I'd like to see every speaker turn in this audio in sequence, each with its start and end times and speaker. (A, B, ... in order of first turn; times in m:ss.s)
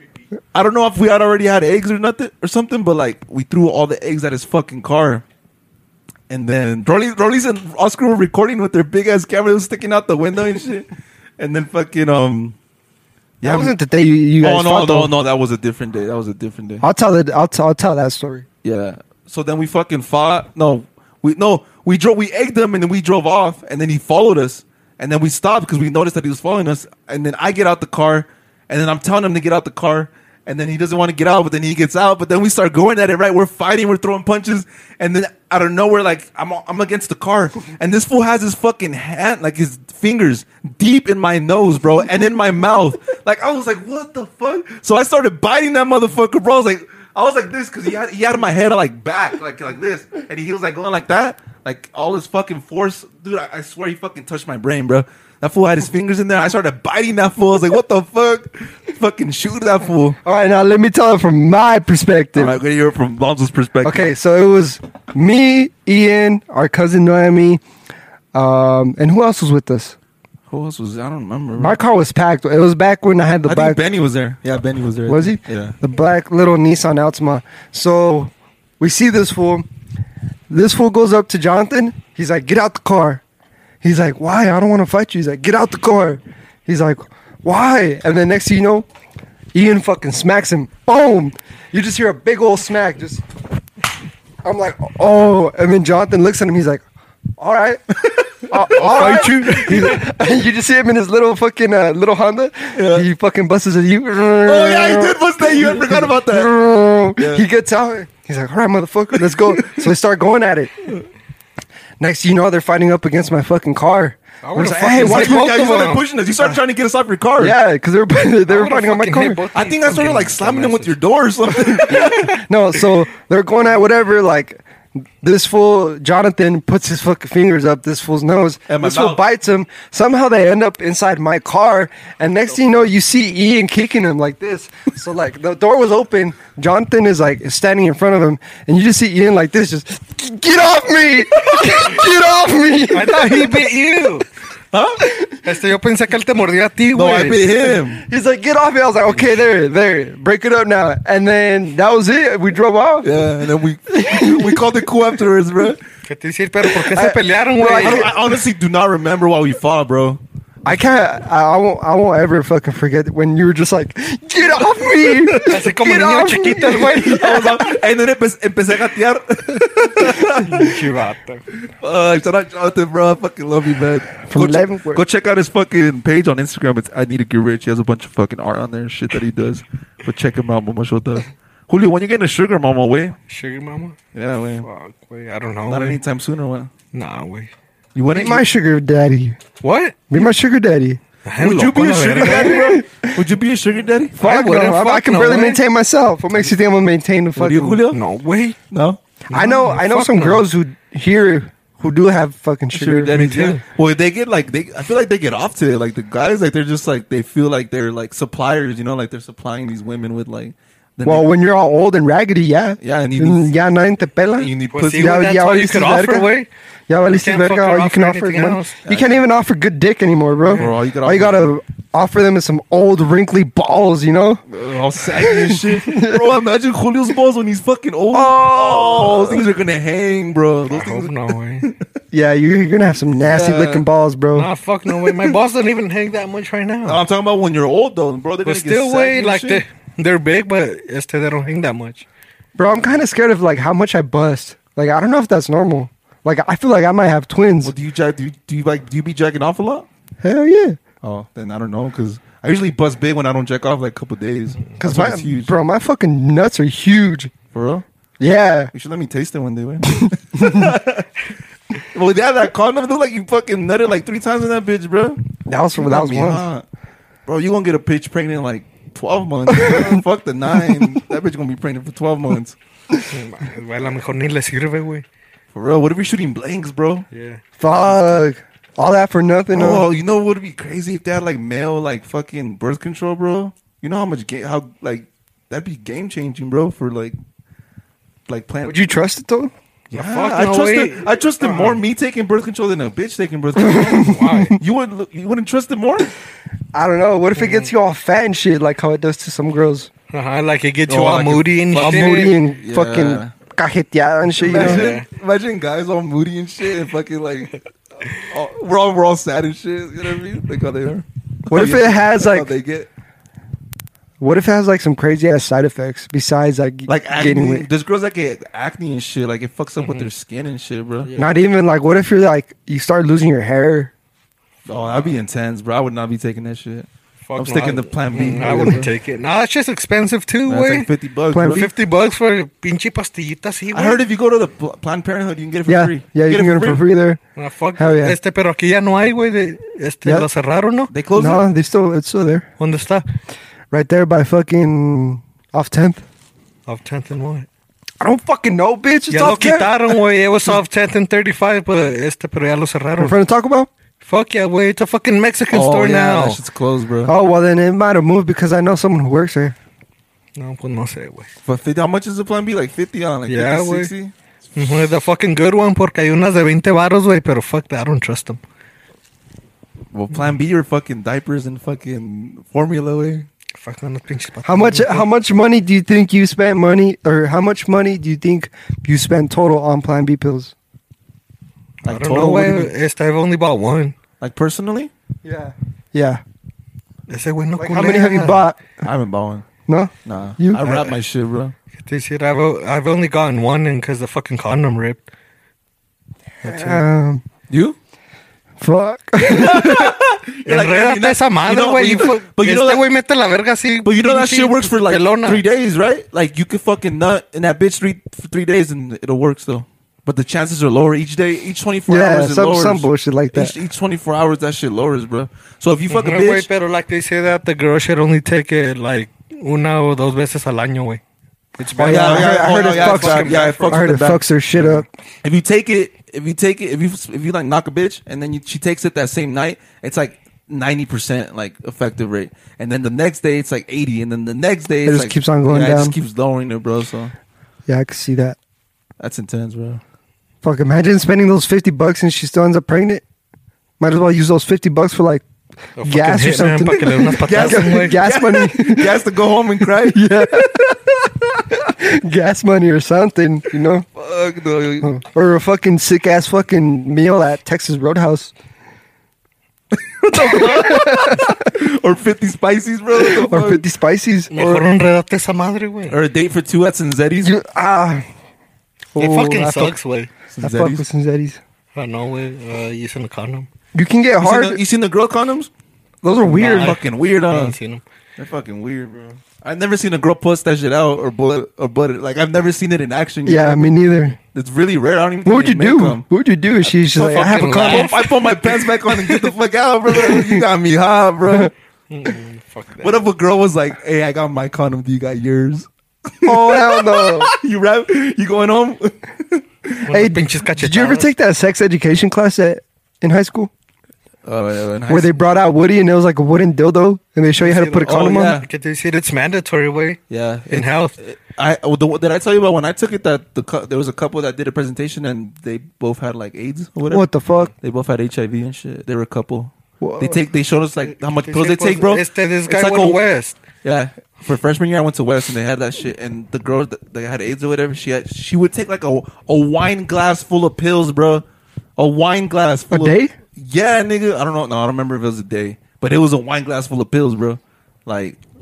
0:00.5-0:05.2 A
0:06.3-0:10.9 A
0:11.4-0:12.6 A
0:13.4-0:13.7 A
0:13.4-0:15.1 B
0:14.4-0:16.8 A
0:16.8-0:18.4 B
0:18.6-1:00.2 A
1:00.2-1:02.6 B
1:02.3-1:04.1 A
1:03.8-1:07.6 B
1:08.3-1:10.0 B
1:10.5-1:11.8 A
1:11.6-1:13.8 B
1:13.4-1:15.8 A
1:15.1-1:19.6 B
1:20.5-1:23.2 B
1:23.8-1:28.9 B
1:29.5-1:33.2 B
1:34.4-1:36.8 B
1:37.4-1:50.9 B
1:38.0-1:40.0 A
1:39.0-1:39.9 C
1:42.7-1:43.0 A
1:44.4-1:46.5 A
1:47.2-1:47.4 A
1:49.5-1:49.8 A
1:52.0-1:55.5 B
1:54.4-1:56.0 C
1:54.8-1:57.6 A
1:57.4-1:59.4 B
1:58.5-2:01.0 C
1:59.5-2:02.4 A
2:01.7-2:04.6 B
2:05.2-2:23.6 B
2:08.7-2:09.2 A
2:22.9-2:24.3 C
2:24.7-2:25.1 A
2:25.0-2:25.3 B
2:25.3-2:27.5 C
2:26.9-2:28.0 A
2:27.8-2:33.1 B
2:33.0-2:35.8 A
2:33.9-2:34.6 B
2:36.0-2:38.1 C
2:36.7-2:38.3 B
2:37.7-2:40.2 A
2:40.6-2:47.8 B
2:45.3-2:45.6 A
2:45.4-2:47.2 C
2:47.0-2:50.8 A
2:50.2-2:51.4 C
2:51.6-3:03.2 A
2:54.2-2:55.0 B
3:03.3-3:04.0 C
3:04.1-3:04.7 A
3:04.6-3:06.0 C
3:05.7-3:06.7 A
3:06.9-3:07.5 C
3:07.9-3:08.4 A
3:08.1-3:09.4 B
3:09.6-3:10.1 C
3:10.1-3:11.0 B
3:11.2-3:12.7 C
3:11.4-3:14.2 A
3:12.2-3:13.2 B
3:14.2-3:17.8 B
3:14.2-3:15.6 C
3:17.4-3:18.0 A
3:17.9-3:18.6 C
3:18.7-3:19.0 A
3:19.3-3:20.4 C
3:19.3-3:23.1 B
3:22.7-3:31.3 A
3:23.1-3:23.6 C
3:31.0-3:36.3 B
3:32.8-3:33.5 A
3:34.4-3:35.2 A
3:34.7-3:36.5 C
3:36.9-3:44.4 B
3:37.1-3:38.8 C
3:38.8-3:39.1 A
3:40.5-3:41.5 A
3:44.5-3:51.8 A
3:45.1-3:46.2 B
3:48.1-3:49.4 B
3:50.7-3:51.7 C
3:52.1-3:54.5 B
3:53.2-3:53.8 A
3:54.3-3:57.0 C
3:56.8-3:59.6 A
3:58.4-4:02.0 C
4:02.6-4:07.7 B
4:07.6-4:09.9 A
4:10.2-4:10.8 B
4:11.0-4:15.5 A
4:14.8-4:17.3 B
4:17.5-4:17.8 A
4:18.2-4:18.7 B
4:18.7-4:21.1 A
4:19.9-4:20.7 B
4:21.8-4:26.6 A
4:25.4-4:26.5 B
4:27.3-4:32.6 A
4:29.5-4:30.0 B
4:33.1-4:35.0 C
4:35.5-4:37.0 A
4:37.1-4:37.4 C
4:37.6-4:39.8 B
4:39.5-4:47.2 A
4:48.3-4:48.9 A
4:48.6-4:49.5 B
4:49.9-4:51.8 C
4:49.9-4:56.1 A
4:53.6-4:54.6 B
4:53.9-4:54.6 C
4:56.7-4:59.9 B
4:57.4-4:57.7 C
5:00.1-5:02.4 C
5:00.9-5:03.3 A
5:01.7-5:04.9 B
5:04.4-5:07.6 A
5:04.4-5:05.0 C
5:08.1-5:12.9 A
5:11.5-5:12.5 B
5:14.2-5:17.7 B
5:16.9-5:21.1 A
5:19.8-5:20.1 C
5:21.0-5:21.3 C
5:21.2-5:23.9 B
5:24.6-5:28.9 A
5:27.3-5:30.9 C
5:28.4-5:28.8 B
5:30.5-5:31.7 A
5:31.3-5:31.7 B
5:31.4-5:34.0 C
5:33.7-5:36.8 A
5:35.7-5:37.2 B
5:37.4-5:40.9 C
5:37.8-5:38.2 B
5:40.9-5:41.4 A
5:41.1-5:42.5 B
5:42.6-5:43.0 C
5:43.7-5:46.0 B
5:46.7-5:47.5 C
5:48.0-5:49.7 B
5:49.1-5:53.2 C
5:53.0-5:53.7 B
5:54.0-5:56.4 C
5:55.5-5:57.1 A
5:57.0-5:59.6 B
6:00.4-6:01.3 C
6:01.4-6:04.1 A
6:03.3-6:03.9 C
6:04.5-6:08.4 C
6:09.9-6:13.3 A
6:13.6-6:15.1 C
6:14.4-6:20.5 B
6:21.8-6:22.7 A
6:21.8-6:23.9 C
6:24.2-6:24.9 A
6:25.2-6:26.2 B
6:27.1-6:28.4 C
6:27.6-6:28.6 B
6:28.8-6:29.5 A
6:29.7-6:30.9 B
6:30.0-6:31.5 A
6:31.8-6:35.0 C
6:36.4-6:36.8 C
6:36.4-6:37.2 B
6:37.5-6:37.8 A
6:38.6-6:40.0 B
6:39.2-6:42.8 A
6:40.4-6:45.4 C
6:43.8-6:56.5 A
6:51.9-6:53.5 B
6:55.9-7:01.0 C
7:01.6-7:03.9 C
7:01.7-7:04.8 B
7:01.8-7:17.1 A
7:14.8-7:15.9 B
7:17.7-7:18.4 B
7:19.0-7:19.8 A
7:20.4-7:23.0 B
7:23.8-7:25.2 B
7:25.8-7:28.0 C
7:25.8-7:29.0 B
7:27.2-7:30.2 A
7:29.6-7:33.8 B
7:33.9-7:34.9 A
7:34.8-7:38.3 B
7:39.7-7:43.6 A
7:40.1-7:41.4 B
7:43.0-7:44.6 B
7:44.3-7:46.0 C
7:45.9-7:47.3 A
7:47.2-7:48.0 B
7:48.9-7:49.8 B
7:49.0-7:50.1 C
7:50.3-7:50.8 A
7:50.4-7:51.4 B
7:51.7-7:53.5 C
7:53.7-7:54.6 B
7:54.2-7:55.5 A
7:56.0-7:56.8 B
7:56.2-7:57.6 A
7:56.3-7:57.8 C
7:58.2-8:03.7 A
8:03.2-8:04.2 B
8:04.2-8:06.0 A
8:05.2-8:07.9 B
8:06.9-8:09.3 C
8:07.0-8:11.5 A
8:09.9-8:10.4 B
8:11.9-8:13.0 C
8:12.8-8:19.9 A
8:16.2-8:17.3 B
8:19.9-8:21.1 C
8:19.9-8:23.5 B
8:24.2-8:25.2 A
8:24.9-8:28.4 B
8:27.4-8:30.9 C
8:27.8-8:28.5 A
8:30.1-8:43.0 A
8:36.9-8:37.5 B
8:39.8-8:40.2 B
8:40.8-8:43.4 C
8:43.6-8:51.2 A
8:51.8-8:58.2 A
8:52.7-8:53.1 B